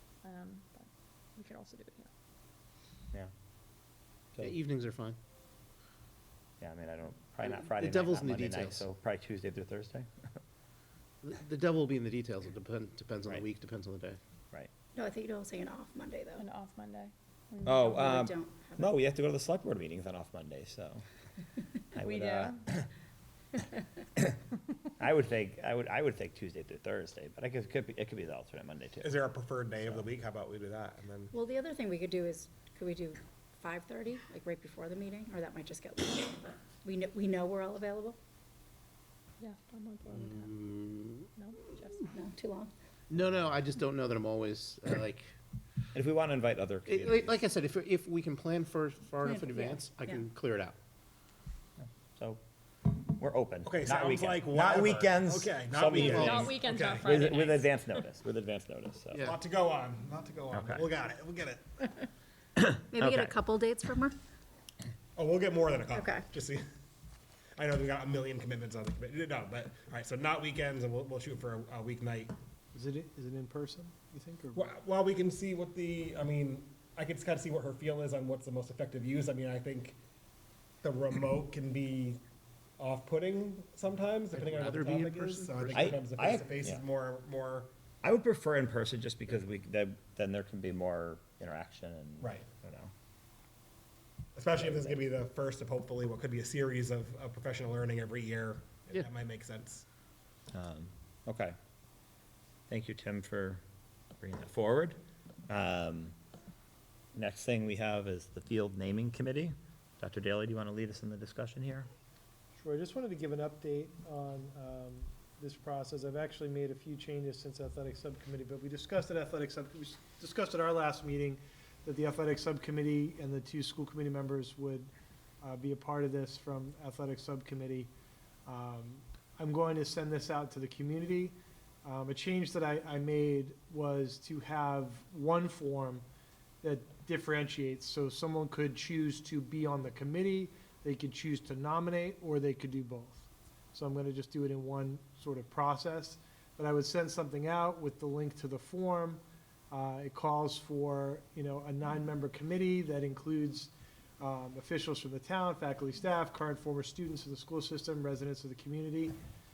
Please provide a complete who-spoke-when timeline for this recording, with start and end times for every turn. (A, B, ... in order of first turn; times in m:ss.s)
0:00.2-0:02.1 A
0:04.4-0:05.2 B
0:06.6-0:10.4 C
0:07.4-0:08.8 B
0:11.2-0:14.2 B
0:14.9-0:16.4 D
0:16.4-0:18.1 A
0:17.6-0:21.0 C
0:17.6-0:18.9 D
0:21.9-0:22.9 C
0:22.0-0:22.6 A
0:25.0-0:29.2 C
0:29.0-0:31.3 E
0:29.8-0:30.1 C
0:31.3-0:38.2 D
0:39.4-0:40.6 A
0:40.1-0:41.3 B
0:41.4-0:42.1 A
0:42.1-0:42.7 D
0:43.1-0:45.3 B
0:45.9-0:47.4 C
0:46.8-0:50.8 B
0:49.2-0:50.2 D
0:51.8-0:59.2 C
0:53.6-0:57.3 E
0:55.9-0:56.3 B
0:56.3-0:58.0 A
0:59.1-0:59.4 B
0:59.2-1:02.0 E
1:00.5-1:00.8 C
1:02.6-1:03.4 C
1:02.9-1:04.1 D
1:05.2-1:06.6 E
1:05.9-1:06.3 D
1:07.6-1:12.3 E
1:12.7-1:14.7 F
1:14.6-1:20.0 E
1:20.8-1:22.2 E
1:22.8-1:27.7 E
1:24.3-1:26.0 B
1:25.7-1:26.8 C
1:28.0-1:32.9 C
1:32.2-1:32.4 E
1:34.4-1:39.8 E
1:34.6-1:35.0 C
1:40.5-1:41.6 C
1:42.7-1:43.6 C
1:44.2-1:46.2 C
1:47.1-1:51.9 C
1:52.6-2:04.9 F
2:05.4-2:07.9 F
2:08.4-2:16.0 F
2:16.6-2:39.1 F